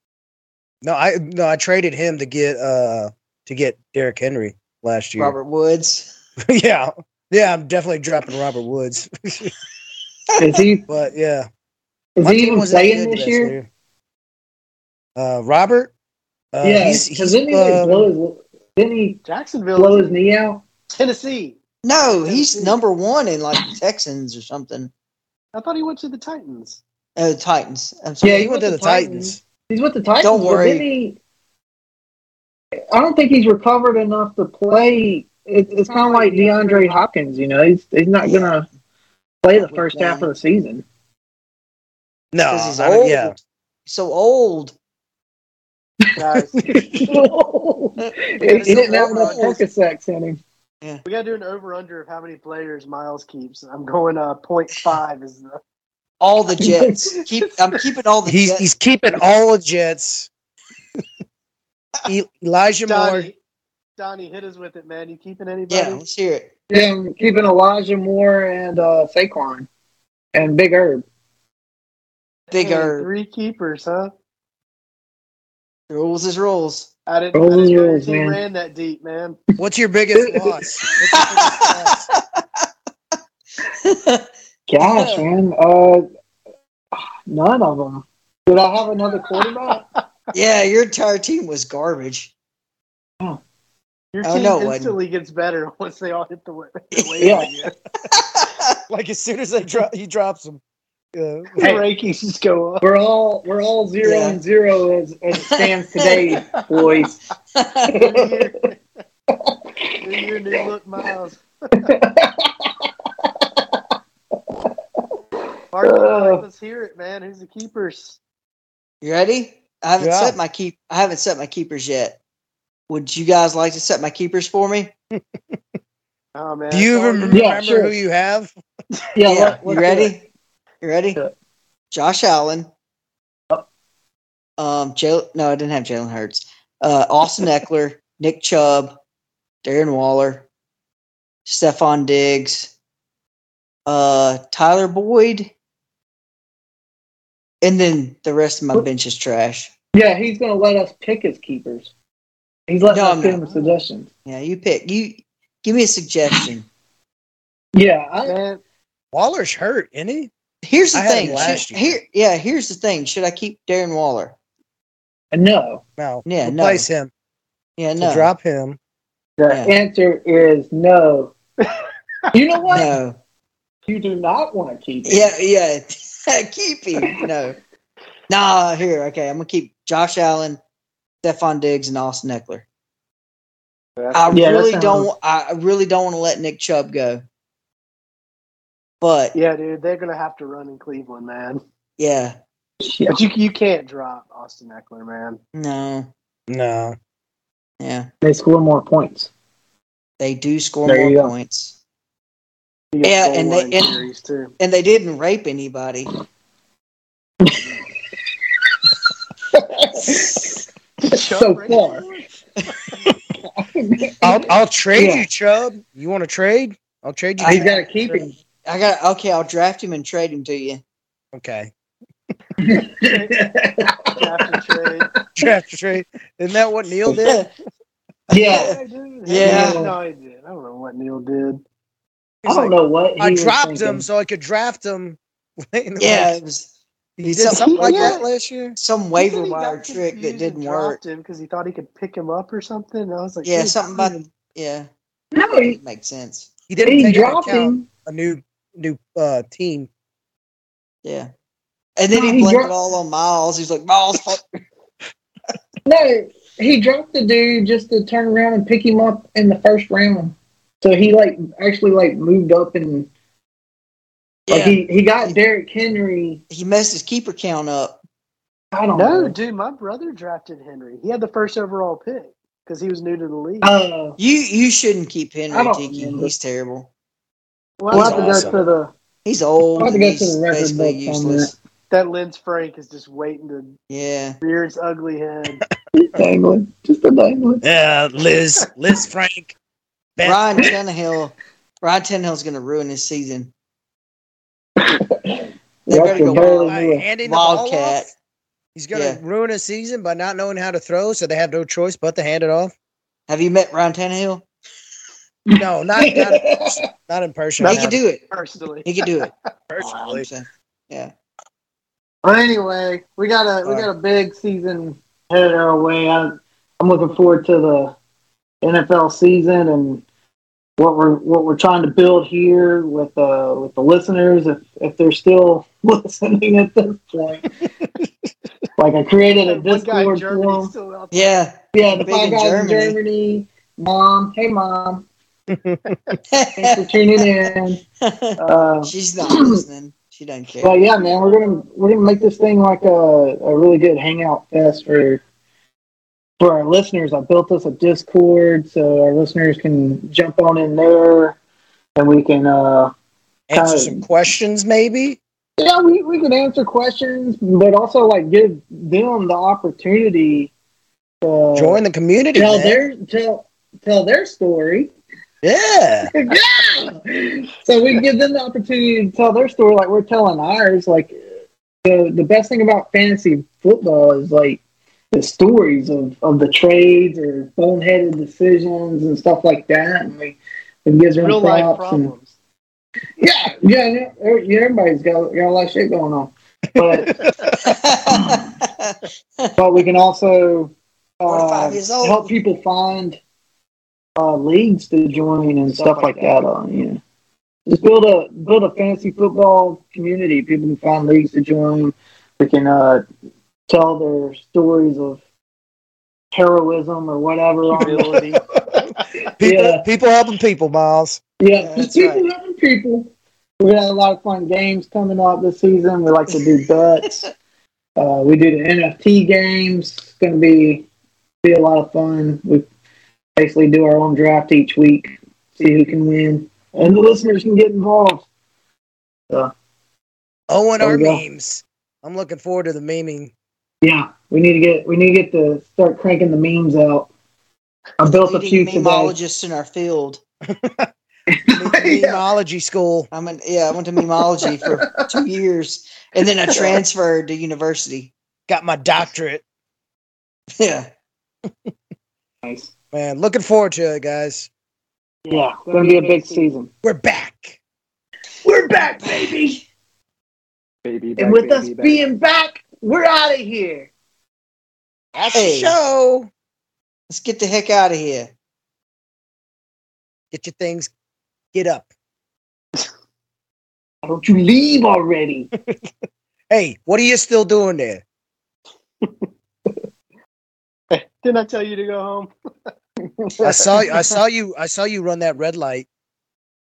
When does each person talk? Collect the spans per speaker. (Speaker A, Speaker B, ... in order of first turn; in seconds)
Speaker A: 0.8-5.3, 6.5-9.5, 10.9-11.5, 12.2-13.7, 15.2-15.9, 16.5-18.1, 28.3-29.4, 42.3-43.4, 46.6-47.0, 58.3-60.3, 62.1-63.3, 79.6-82.1, 98.9-100.6, 101.1-101.7, 120.0-120.4, 125.2-125.6, 126.7-128.5, 159.1-160.3, 160.9-161.9, 166.0-167.1, 168.0-168.8, 196.5-196.9, 214.2-217.8, 221.3-221.7, 225.4-227.5, 232.4-236.3, 237.2-238.8, 246.7-249.9, 277.9-278.6, 287.6-289.5, 290.2-290.6, 296.1-298.1, 298.8-302.7, 305.6-308.0, 309.7-310.3, 335.5-336.0, 353.5-355.2, 361.6-362.8, 365.4-366.1, 386.9-387.6, 409.4-411.2, 430.5-433.3, 440.5-440.9, 441.5-443.1, 448.5-449.4, 452.9-454.5, 456.8-457.6, 465.1-466.3, 470.3-470.9, 471.5-471.9, 476.5-478.0, 483.4-485.9
Speaker B: 5.2-6.1, 21.8-24.9, 27.2-28.5, 30.2-30.9, 38.2-38.6, 39.5-40.3, 42.5-44.7, 48.0-49.5, 56.2-58.7, 65.7-66.5, 72.5-73.1, 75.9-76.9, 81.0-82.7, 83.8-84.3, 84.8-85.2, 90.3-92.3, 94.2-95.0, 96.9-97.5, 98.1-98.8, 104.0-104.4, 105.4-106.4, 107.5-108.0, 119.0-122.2, 122.9-124.9, 129.3-130.3, 130.8-131.2, 131.9-132.7, 134.6-139.0, 139.6-140.5, 141.5-142.7, 143.9-145.5, 147.6-149.7, 152.9-153.4, 154.3-156.7, 160.6-164.3, 166.3-166.9, 167.8-168.3, 172.7-173.2, 175.1-177.6, 178.3-180.6, 181.2-182.6, 184.1-187.2, 189.0-189.3, 192.0-192.4, 195.5-196.1, 197.8-198.1, 200.2-201.8, 203.0-204.1, 204.6-206.1, 217.4-217.8, 218.7-220.8, 227.1-227.5, 228.3-229.8, 236.0-238.2, 238.8-241.0, 243.4-244.9, 245.4-246.5, 251.0-251.3, 252.0-254.4, 264.5-265.4, 266.5-268.0, 274.2-276.9, 277.9-278.4, 279.2-281.5, 283.9-284.4, 290.2-293.5, 295.9-298.1, 298.9-299.2, 303.3-304.4, 307.6-308.2, 308.9-311.1, 331.1-333.0, 336.3-337.3, 338.0-340.8, 387.5-389.6, 391.3-392.3, 411.6-412.3, 417.0-417.3, 438.0-440.2, 443.1-448.1, 450.6-450.9, 465.3-465.8, 467.1-468.3
Speaker C: 10.4-10.8, 12.2-13.6, 16.6-19.2, 19.8-20.6, 28.2-31.2, 32.9-38.7, 39.4-40.9, 46.9-50.4, 56.6-57.0, 66.7-69.7, 70.3-71.0, 77.3-78.4, 80.1-80.6, 84.7-86.0, 87.3-89.8, 97.2-97.5, 102.8-107.2, 107.9-108.5, 109.3-110.0, 111.8-112.7, 113.2-113.6, 115.8-116.5, 127.3-128.0, 129.2-130.1, 149.9-151.9, 152.7-154.1, 157.8-158.4, 161.2-161.6, 165.3-165.8, 169.4-171.3, 172.3-173.0, 173.9-175.3, 184.3-185.1, 192.8-193.2, 198.2-199.3, 200.9-201.3, 209.5-212.0, 213.4-215.3, 217.5-218.4, 222.6-224.6, 228.3-228.8, 229.4-230.0, 232.5-234.1, 245.3-245.8, 246.8-247.9, 252.1-252.7, 255.8-263.1, 264.5-266.4, 268.7-269.4, 273.6-274.2, 275.5-276.3, 277.9-278.9, 279.8-281.5, 285.9-287.6, 294.8-297.1, 305.5-306.8, 312.2-317.9, 318.6-320.0, 320.8-327.5, 328.8-330.7, 331.7-335.1, 336.6-337.8, 338.4-339.6, 340.6-345.2, 346.4-351.4, 352.0-352.9, 353.5-354.1, 355.6-360.5, 361.2-361.8, 362.3-364.9, 366.1-371.2, 371.8-374.6, 375.1-382.1, 383.2-387.2, 389.6-393.2, 394.2-397.0, 397.7-403.1, 403.7-405.2, 406.3-408.3, 409.4-409.9, 411.4-417.1, 418.0-420.9, 421.4-422.7, 423.4-428.3, 430.8-431.2, 433.8-437.1, 438.0-439.2, 441.3-442.2, 444.6-445.1, 452.4-452.7, 455.3-456.7, 458.4-459.6, 461.2-463.9, 474.0-475.5, 483.2-483.8
Speaker D: 19.2-20.1, 20.9-22.8, 25.5-26.8, 35.9-37.0, 46.2-46.7, 48.4-49.6, 51.0-55.6, 62.9-63.4, 64.0-66.0, 72.5-74.1, 77.1-79.4, 94.1-97.7, 101.6-102.8, 107.9-108.8, 110.0-111.4, 115.7-118.2, 126.3-127.5, 158.2-158.6, 184.0-184.4, 189.3-191.6, 193.1-195.4, 202.9-204.5, 211.0-213.2, 222.9-223.3, 224.1-225.1, 228.3-231.6, 237.5-238.2, 239.2-244.1, 268.9-273.7, 277.8-278.6, 281.9-283.8, 284.4-285.6, 307.6-309.3, 329.4-331.4, 340.9-341.6, 381.2-382.4, 395.7-396.0, 407.7-409.1, 455.7-456.5, 460.8-462.0, 480.9-482.3